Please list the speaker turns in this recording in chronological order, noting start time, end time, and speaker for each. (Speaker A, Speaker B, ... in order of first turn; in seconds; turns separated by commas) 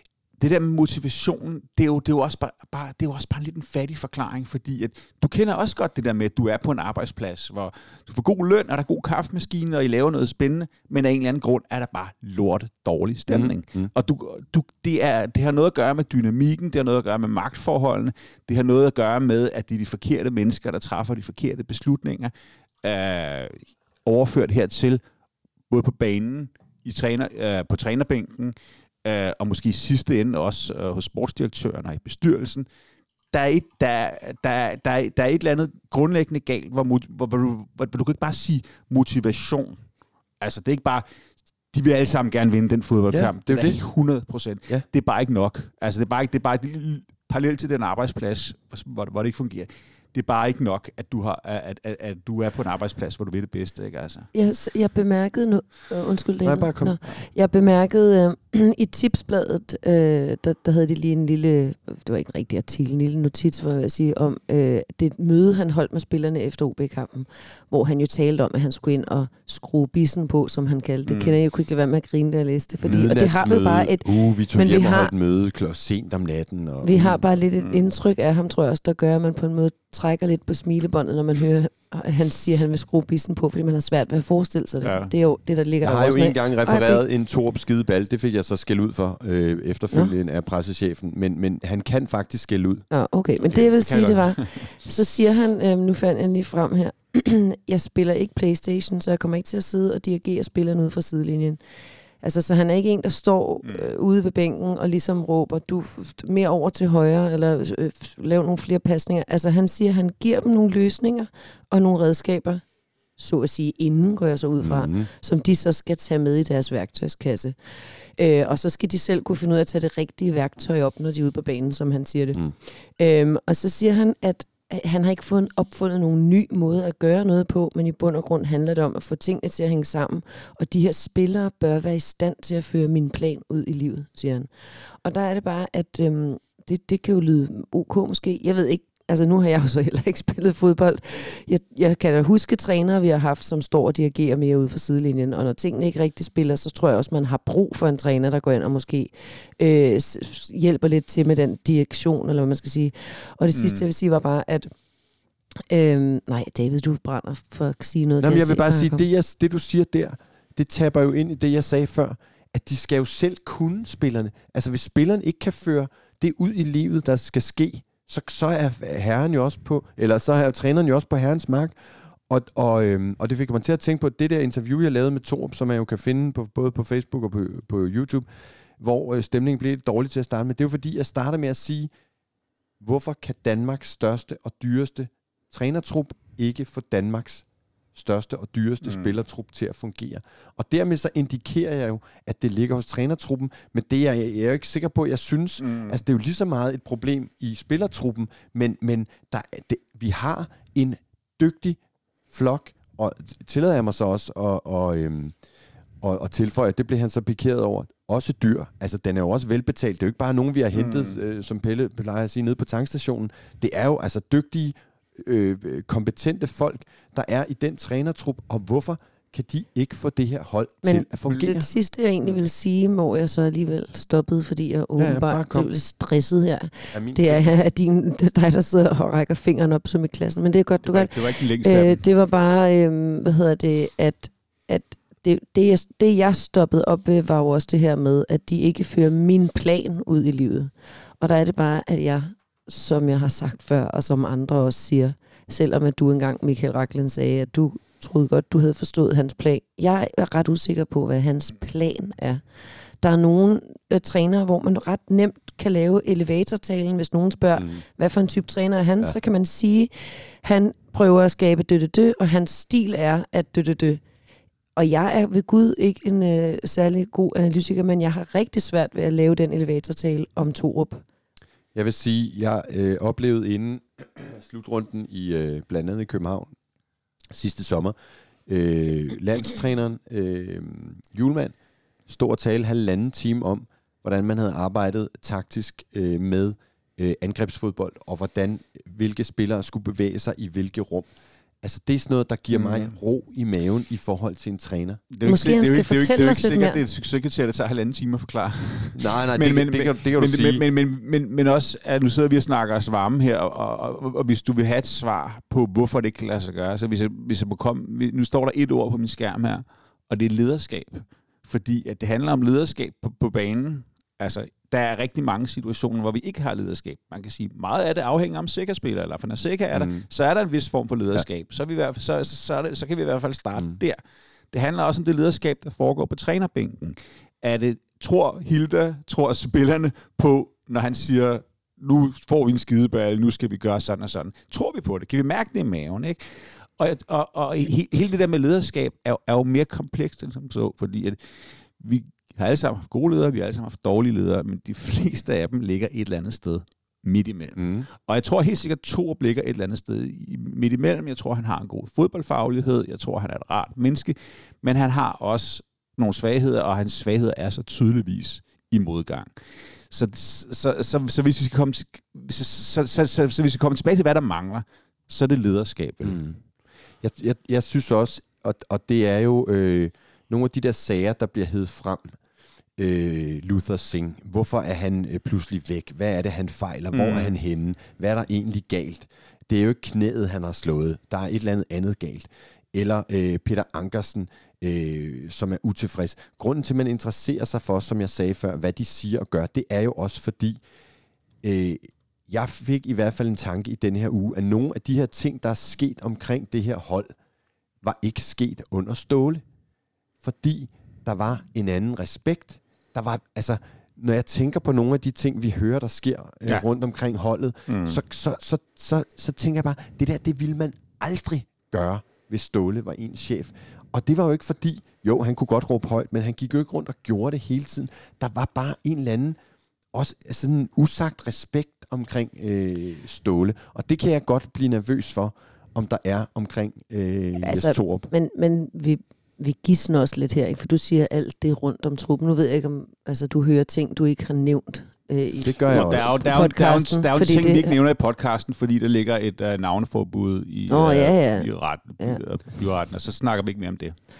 Speaker A: 0.4-25.0, Speaker B: 13.3-13.9, Speaker A: 25.7-32.6, Speaker A: 33.3-39.8, Speaker A: 40.4-41.0, Speaker A: 41.7-54.3, Speaker B: 43.1-43.8, Speaker C: 54.3-75.1, Speaker B: 56.4-57.0, Speaker A: 71.0-71.4, Speaker B: 72.8-77.2, Speaker C: 76.8-87.0, Speaker A: 77.6-77.8, Speaker A: 84.8-85.1, Speaker B: 85.8-92.8, Speaker C: 92.9-101.6, Speaker A: 93.5-94.7, Speaker C: 102.2-112.6, Speaker A: 103.6-103.9, Speaker C: 113.2-134.5, Speaker B: 114.6-115.1, Speaker C: 135.0-154.7, Speaker A: 153.5-153.8, Speaker C: 155.7-159.0, Speaker B: 158.2-171.8, Speaker B: 172.3-178.3, Speaker B: 178.8-181.9, Speaker B: 182.8-201.8, Speaker A: 188.8-189.1, Speaker A: 195.6-196.0, Speaker B: 202.3-205.3, Speaker B: 206.0-221.7, Speaker A: 210.7-211.2, Speaker C: 220.8-252.4, Speaker B: 225.0-225.7, Speaker B: 226.9-227.4, Speaker A: 230.8-232.0, Speaker C: 253.0-264.0, Speaker C: 264.8-271.0, Speaker B: 271.7-276.5, Speaker B: 277.3-277.9, Speaker B: 278.5-281.5, Speaker B: 282.1-291.1, Speaker B: 291.6-295.0, Speaker A: 292.5-292.9, Speaker A: 295.1-324.0, Speaker C: 295.2-296.8, Speaker B: 298.9-300.6, Speaker B: 319.7-320.0, Speaker A: 324.5-366.2, Speaker B: 347.6-347.9, Speaker B: 366.0-366.4, Speaker B: 367.0-372.1, Speaker B: 372.8-390.6, Speaker A: 376.9-377.3, Speaker B: 391.4-397.1, Speaker B: 397.8-399.4, Speaker B: 400.2-419.4, Speaker A: 407.7-408.0, Speaker B: 419.9-428.1, Speaker C: 427.4-437.8, Speaker B: 435.4-436.2, Speaker A: 435.7-443.9, Speaker C: 440.7-442.2